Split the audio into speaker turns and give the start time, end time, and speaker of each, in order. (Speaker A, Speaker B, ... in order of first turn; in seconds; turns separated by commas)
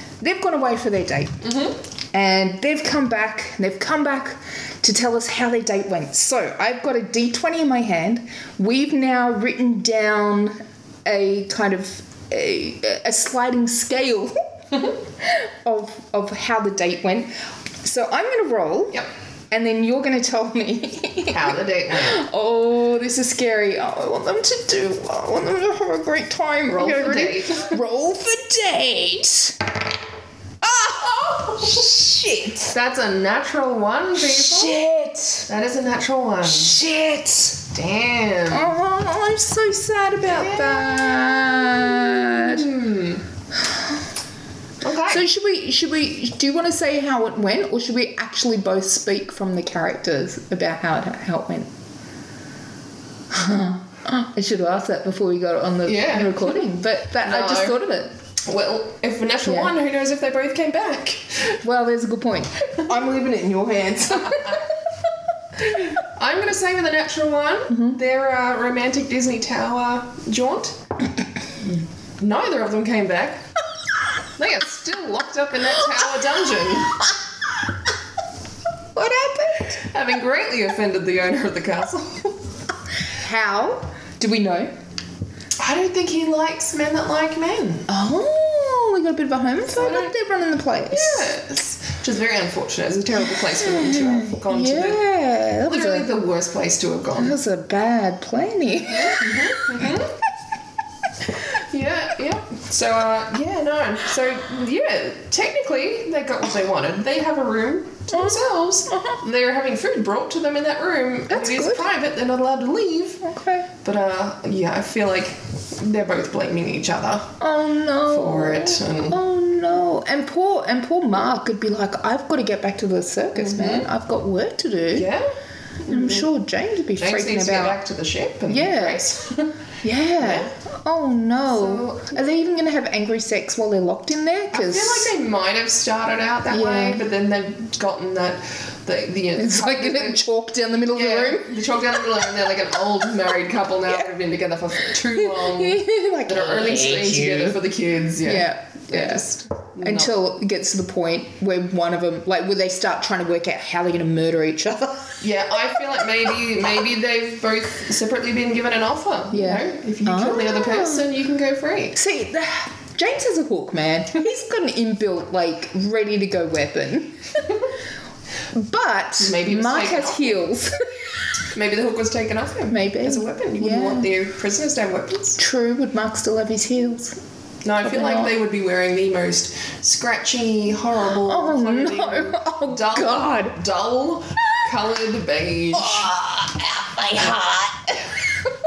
Speaker A: 0.2-1.5, Speaker B: 1.4-1.8, Speaker A: 2.1-14.3, Speaker A: 15.2-17.3, Speaker A: 17.8-29.6, Speaker B: 21.3-22.2, Speaker B: 26.7-27.8, Speaker A: 30.6-32.8, Speaker B: 31.1-31.8, Speaker B: 32.7-34.8, Speaker A: 34.2-35.5, Speaker B: 35.5-36.8, Speaker A: 36.4-37.6, Speaker B: 37.7-38.7, Speaker A: 38.5-42.7, Speaker B: 40.3-43.2, Speaker B: 44.8-45.2, Speaker A: 45.1-51.7, Speaker A: 53.3-58.1, Speaker B: 55.9-56.6, Speaker B: 57.2-57.8, Speaker B: 58.4-61.6, Speaker A: 59.5-59.7, Speaker A: 61.6-64.7, Speaker B: 64.2-64.6, Speaker B: 65.6-70.8, Speaker A: 67.7-68.0, Speaker B: 71.6-73.4, Speaker B: 74.4-77.1, Speaker A: 79.0-79.8, Speaker B: 79.7-82.4, Speaker A: 83.1-84.7, Speaker B: 85.6-87.9, Speaker A: 87.9-91.3, Speaker B: 89.6-90.1, Speaker B: 90.9-95.0, Speaker A: 93.4-96.1, Speaker B: 95.7-97.4, Speaker A: 97.1-100.0, Speaker B: 98.8-100.2, Speaker B: 101.2-113.2, Speaker A: 108.1-109.2, Speaker A: 111.3-111.9, Speaker A: 113.2-113.7, Speaker B: 113.8-117.3, Speaker A: 117.4-125.1, Speaker B: 118.0-119.2, Speaker B: 123.3-123.9, Speaker B: 124.9-125.3, Speaker A: 125.8-127.8, Speaker B: 125.9-126.3, Speaker B: 127.0-129.5, Speaker A: 128.5-129.1, Speaker A: 129.8-135.1, Speaker B: 130.2-130.5, Speaker B: 131.5-132.2, Speaker B: 134.5-140.2, Speaker A: 136.5-137.0, Speaker A: 139.3-141.9, Speaker B: 140.9-150.1, Speaker A: 145.1-147.6, Speaker A: 148.2-149.2, Speaker A: 149.8-155.2, Speaker B: 155.2-162.0, Speaker A: 159.3-161.1, Speaker A: 161.9-167.5, Speaker A: 168.5-170.8, Speaker B: 169.2-170.4, Speaker B: 171.5-175.4, Speaker A: 172.7-174.1, Speaker A: 175.4-177.2, Speaker B: 177.6-186.1, Speaker A: 177.8-178.3, Speaker A: 181.2-183.6, Speaker A: 185.7-188.5